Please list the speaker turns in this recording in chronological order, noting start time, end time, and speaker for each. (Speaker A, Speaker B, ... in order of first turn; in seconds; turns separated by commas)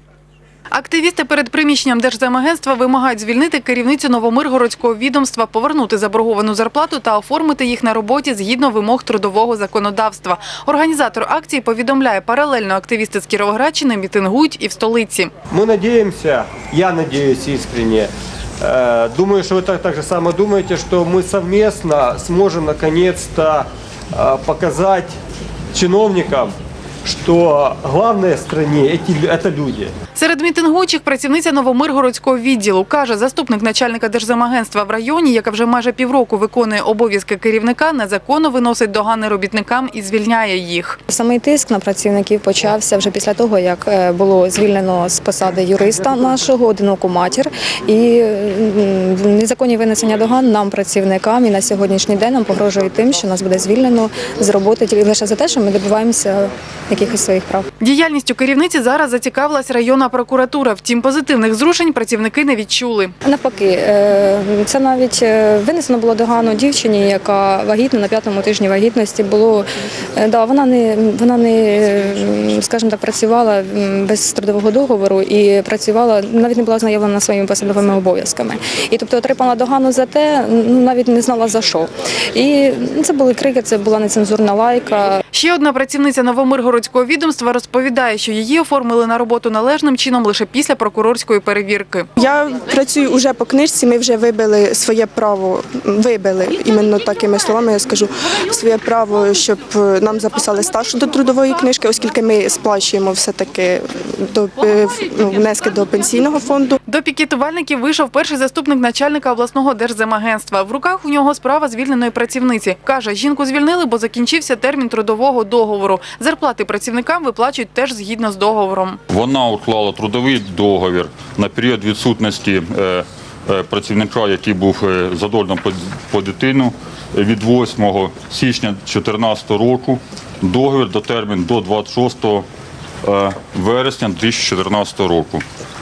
Speaker A: 0.7-15.3, Speaker B: 15.5-25.2, Speaker B: 25.7-29.9, Speaker A: 30.1-41.0, Speaker C: 41.1-57.7, Speaker A: 57.8-63.1, Speaker C: 63.3-69.7, Speaker C: 70.2-85.2, Speaker A: 85.3-92.1, Speaker D: 92.2-106.8, Speaker A: 106.9-119.0, Speaker E: 119.1-132.4, Speaker E: 133.0-135.4